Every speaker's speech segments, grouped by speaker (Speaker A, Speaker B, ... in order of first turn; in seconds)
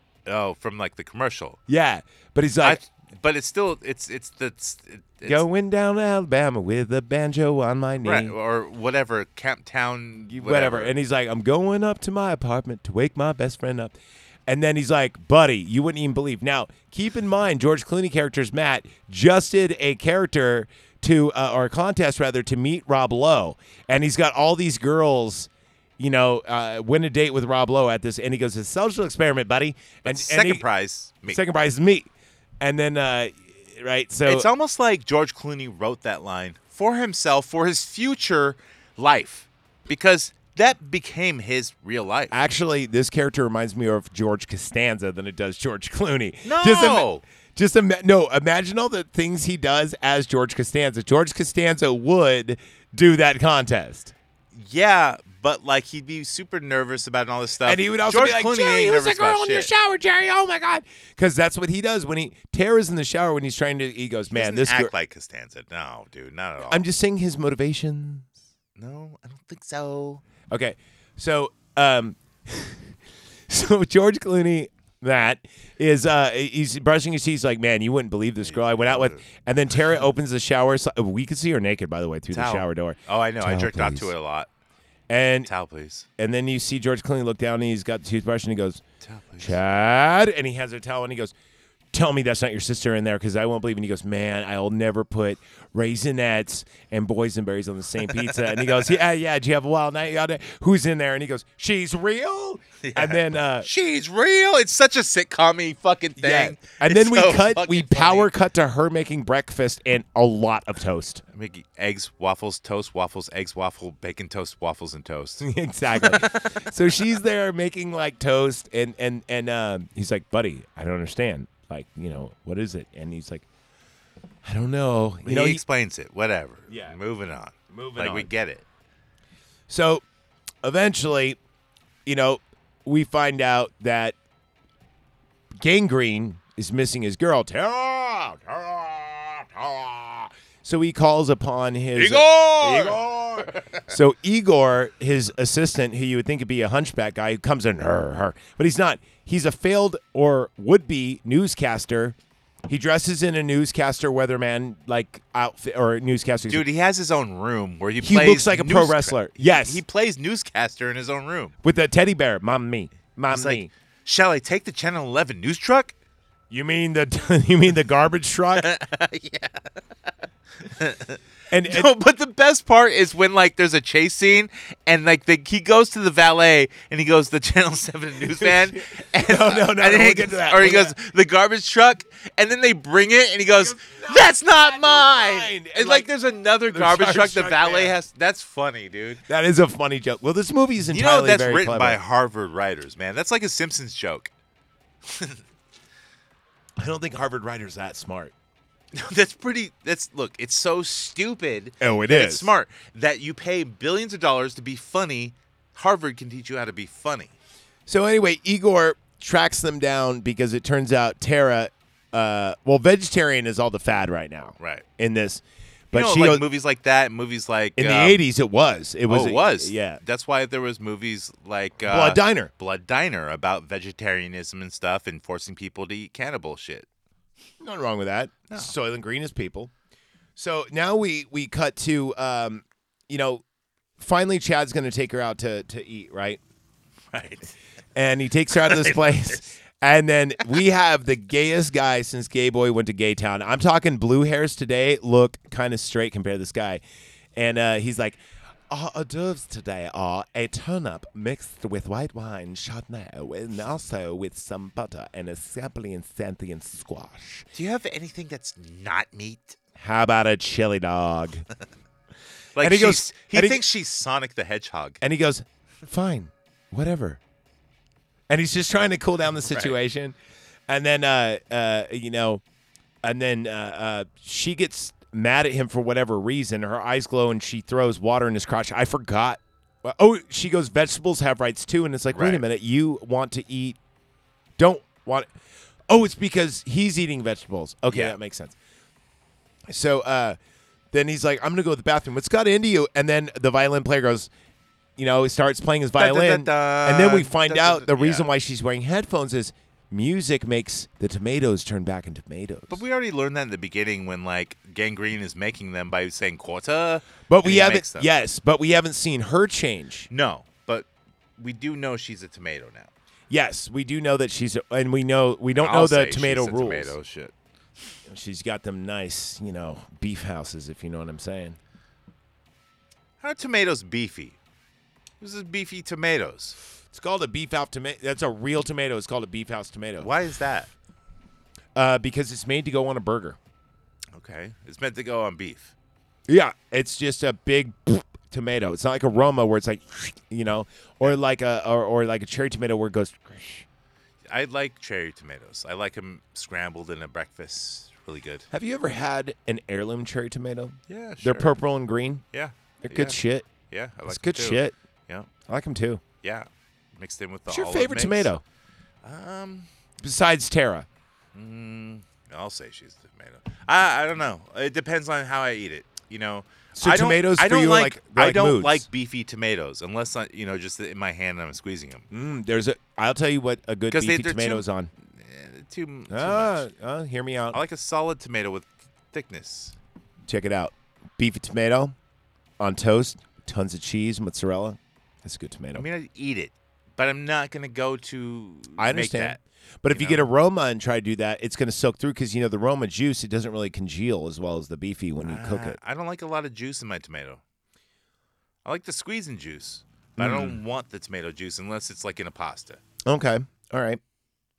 Speaker A: 0.3-1.6, 2.6-5.5, 8.0-10.9, 30.0-31.4, 34.2-42.4, 46.5-47.2, 54.5-59.7, 64.3-66.8, 68.8-70.2, 78.5-79.2, 82.3-84.5, 85.5-86.1, 89.0-89.6, 98.1-98.9, 102.8-108.3, 111.3-116.7, 125.2-128.7, 142.0-143.9, 156.5-161.5, 163.3-165.9, 168.6-169.7, 170.7-189.2, 190.9-194.3, 195.1-195.4, 198.9-207.3, 214.6-214.8, 215.9-218.2, 219.1-226.9, 237.1-237.5, 238.5-239.4, 257.5-259.6, 262.6-265.0, 269.5-269.8, 282.1-282.4, 287.9-288.2, 296.0-298.3, 302.7-308.1, 310.1-310.9, 311.4-312.9, 315.6-317.3, 323.2-324.4, 325.2-326.6, 330.0-330.7, 334.1-335.7, 344.3-348.5, 350.9-351.6, 352.3-355.3, 356.2-358.3, 359.0-359.7, 361.3-372.1, 373.9-376.7, 377.5-379.8, 385.7-389.4, 389.9-390.3, 395.2-397.4, 398.6-402.8
Speaker B: 1.7-2.8, 5.2-8.3, 10.3-14.0, 14.5-30.7, 31.3-34.5, 42.3-54.1, 57.6-64.9, 66.7-68.3, 70.5-72.9, 73.5-84.1, 85.1-85.5, 86.2-88.8, 89.4-91.3, 91.9-103.7, 106.2-111.2, 115.4-123.5, 124.4-125.6, 126.7-127.0, 127.7-128.3, 129.7-130.0, 130.6-131.4, 132.1-134.2, 135.6-152.2, 152.7-156.7, 158.0-159.8, 161.6-163.7, 166.5-168.7, 171.5-171.9, 178.3-180.9, 183.6-186.1, 186.7-187.9, 189.3-192.0, 196.8-198.3, 201.8-202.5, 207.9-216.4, 217.8-220.0, 221.9-222.5, 227.6-229.7, 230.4-233.4, 234.0-236.4, 237.9-246.8, 247.4-257.5, 259.8-261.4, 262.6-263.6, 265.0-267.2, 268.3-270.1, 270.7-272.4, 273.0-283.8, 284.6-285.3, 285.9-288.6, 289.7-290.4, 290.9-294.3, 295.0-302.8, 307.3-310.1, 313.3-316.9, 318.1-321.6, 326.9-330.1, 331.8-333.4, 336.3-343.6, 348.5-352.2, 352.8-353.5, 354.1-354.8, 355.5-356.0, 357.5-358.4, 360.0-360.9, 366.8-368.9, 372.1-374.9, 376.1-377.6, 380.3-381.9, 382.6-385.9, 388.8-395.8, 400.2-400.6, 403.1-404.0